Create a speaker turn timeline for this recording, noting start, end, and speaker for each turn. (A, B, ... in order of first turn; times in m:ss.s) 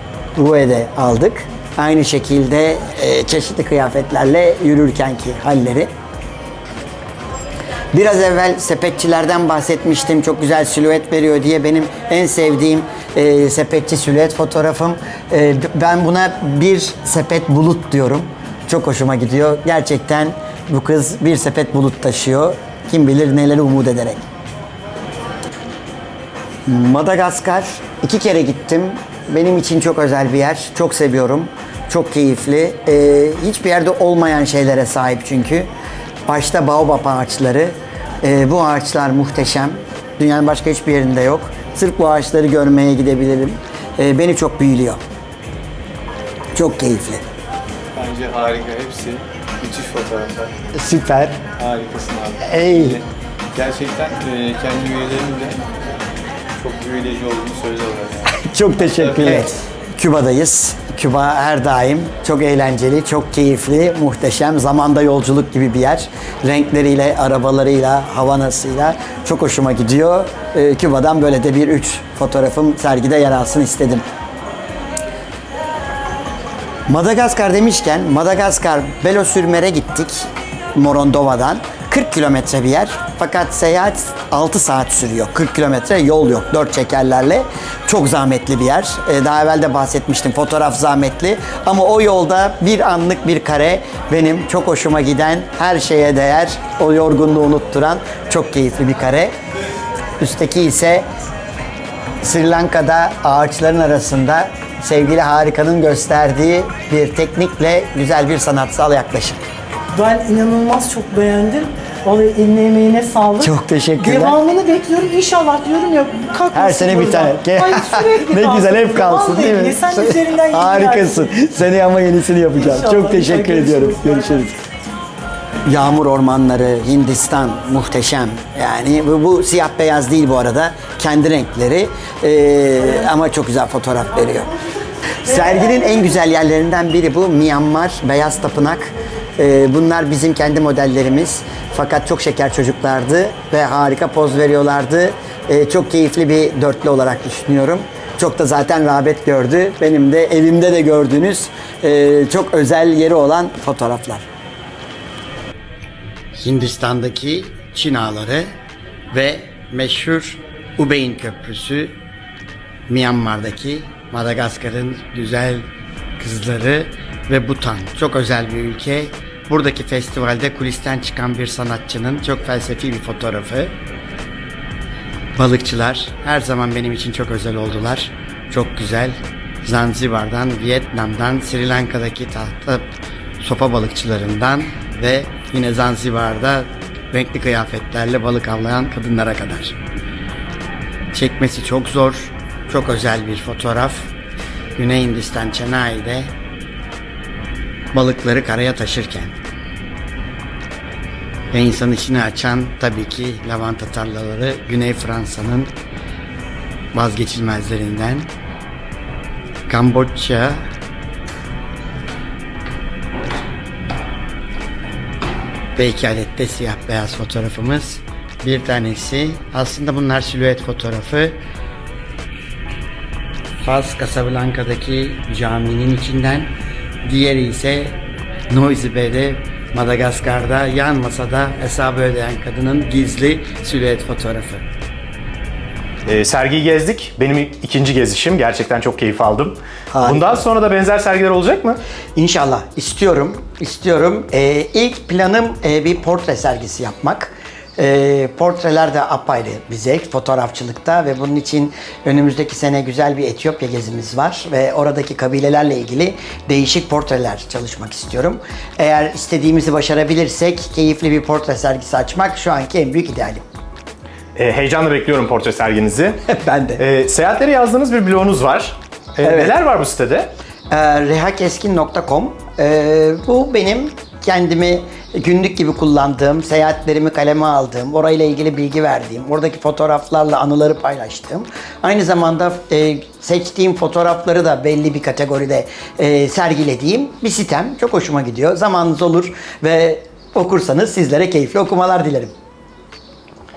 0:00.4-0:05.9 A
0:07.9-0:24.2 A
0:26.7-0:35.7 A
0:36.3-0:45.0 A
0:46.6-0:47.2 A
0:48.0-0:50.5 B
0:50.8-0:51.4 A
0:51.6-0:53.0 B
0:52.4-0:53.0 A
0:53.6-0:55.6 B
0:56.6-0:58.3 B
0:58.3-1:14.0 A
0:58.8-0:59.5 B
1:16.9-1:39.3 A
1:40.2-1:41.0 A
1:42.2-1:49.4 A
1:50.0-2:01.3 C
1:53.4-1:54.4 A
1:56.5-2:04.6 A
2:02.6-2:04.5 C
2:05.7-2:14.5 A
2:15.2-2:34.3 A
2:36.4-2:38.5 A
2:39.1-2:42.0 A
2:42.9-2:45.7 A
2:46.2-2:53.8 A
2:55.4-3:02.9 A
3:03.4-3:09.8 A
3:11.1-3:14.1 A
3:14.8-3:16.3 A
3:17.9-3:19.4 A
3:21.5-3:25.7 A
3:26.9-3:28.3 A
3:29.7-3:30.6 A
3:35.8-3:41.4 A
3:43.6-3:46.5 A
3:47.0-3:48.0 A
3:48.5-3:54.6 A
3:56.1-4:01.8 D
3:59.9-4:00.4 A
4:02.2-4:23.4 A
4:24.4-4:26.2 D
4:26.3-4:26.8 A
4:26.8-4:30.3 D
4:29.2-4:29.6 A
4:30.7-4:52.3 A